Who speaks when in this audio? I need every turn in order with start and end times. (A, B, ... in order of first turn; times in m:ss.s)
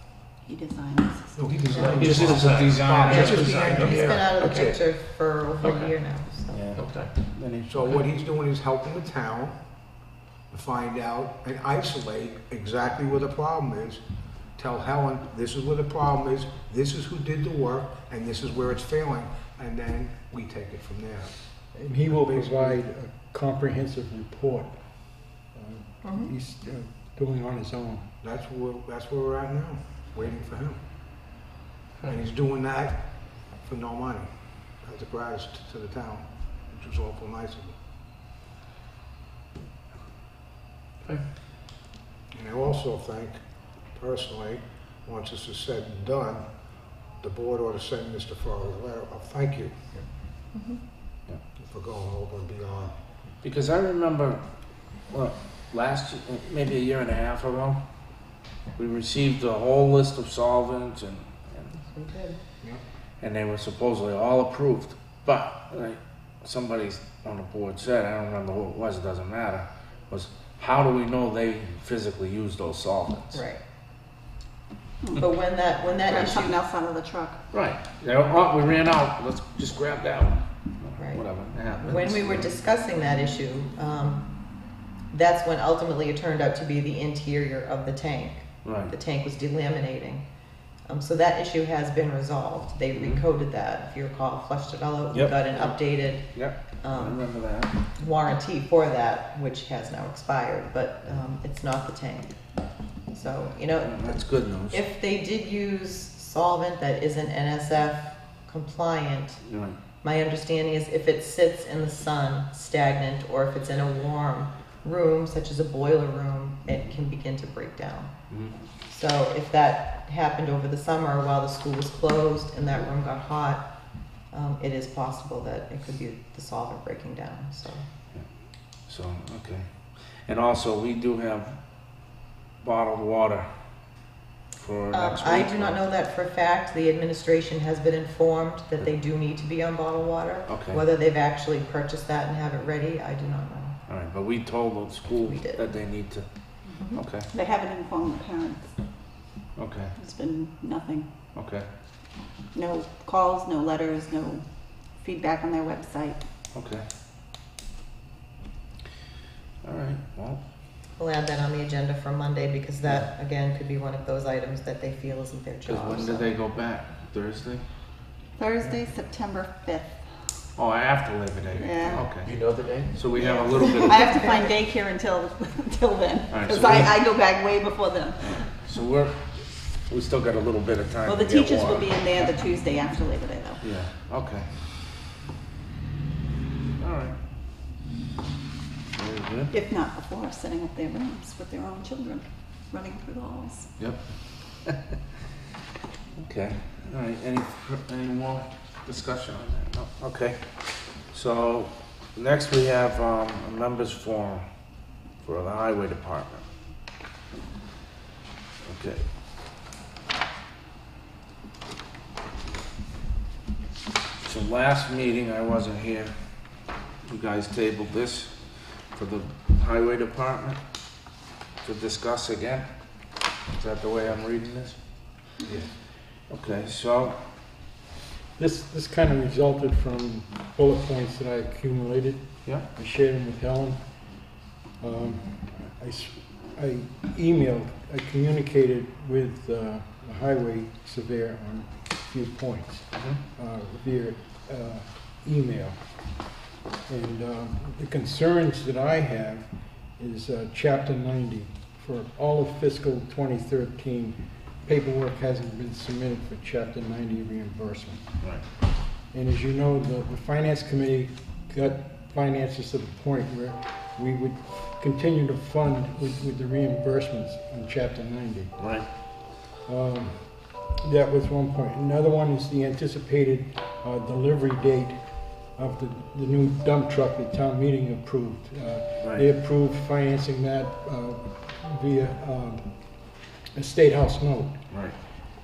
0:00.4-0:01.4 A
0:01.3-0:04.4 B
0:01.7-0:04.8 C
0:01.8-0:02.1 D
0:01.9-0:03.3 E
0:03.0-0:06.7 D
0:05.6-0:05.9 C
0:06.5-0:07.7 E
0:06.7-0:07.1 C
0:07.7-0:09.6 B
0:10.5-0:14.0 B
0:14.6-0:21.3 B
0:21.7-0:24.7 F
0:22.1-0:22.8 B
0:25.5-0:28.1 F
0:26.0-0:26.3 D
0:28.2-0:30.8 B
0:32.1-0:33.0 B
0:33.6-0:34.3 B
0:34.8-0:37.8 B
0:42.3-0:43.4 B
0:43.9-0:46.4 B
0:47.2-0:49.8 B
0:50.5-0:50.8 D
0:51.6-0:52.9 B
0:53.4-0:54.4 E
0:55.1-0:57.8 E
0:58.8-1:01.7 E
1:01.7-1:02.4 D
1:03.2-1:13.4 E
1:13.3-1:13.6 D
1:15.0-1:15.3 A
1:15.2-1:16.6 D
1:16.1-1:17.4 A
1:17.5-1:22.6 E
1:21.0-1:24.3 D
1:25.1-1:30.2 D
1:28.6-1:28.9 E
1:30.9-1:37.3 D
1:32.9-1:33.2 E
1:35.1-1:35.8 E
1:36.3-1:37.8 E
1:38.0-1:42.3 D
1:43.1-1:49.4 D
1:43.8-1:44.8 E
1:49.4-1:49.8 E
1:50.0-1:58.1 D
1:58.3-1:58.5 E
1:58.9-2:03.6 D
2:04.3-2:07.8 D
2:08.9-2:09.7 E
2:10.2-2:11.6 E
2:12.6-2:13.5 E
2:14.6-2:15.8 E
2:14.9-2:23.8 D
2:20.4-2:20.8 E
2:23.9-2:26.2 E
2:25.2-2:25.6 D
2:26.7-2:27.0 D
2:26.9-2:27.3 E
2:27.3-2:28.7 A
2:29.6-2:29.9 E
2:30.0-2:31.1 A
2:31.3-2:31.7 E
2:32.5-2:34.4 A
2:35.0-2:36.2 A
2:36.5-2:36.8 E
2:39.6-2:40.4 E
2:41.0-2:46.4 D
2:45.6-2:47.6 E
2:48.4-2:50.0 A
2:50.6-2:52.3 E
2:51.5-2:52.1 A
2:52.2-2:53.1 C
2:52.9-2:54.0 E
2:53.2-2:58.4 A
2:53.2-2:54.5 D
2:56.3-2:57.0 E
2:58.2-2:59.2 E
2:59.9-3:02.3 E
3:01.0-3:03.6 A
3:03.6-3:04.5 E
3:06.8-3:07.1 E
3:08.9-3:09.5 E
3:09.5-3:13.7 A
3:14.6-3:14.9 E
3:16.2-3:20.4 E
3:21.1-3:24.4 E
3:25.2-3:26.4 E
3:28.6-3:29.0 E
3:34.2-3:36.1 E
3:37.0-3:38.3 E
3:38.9-3:40.6 E
3:41.6-3:42.7 E
3:43.5-3:44.8 E
3:45.4-3:45.7 B
3:46.3-3:47.2 E
3:48.4-3:53.8 F
3:54.8-4:05.8 F
4:06.9-4:18.0 F
4:19.1-4:28.5 F
4:28.6-4:28.9 E
4:29.6-4:30.2 F
4:30.8-4:35.0 F
4:35.6-4:42.6 F
4:43.5-4:44.6 F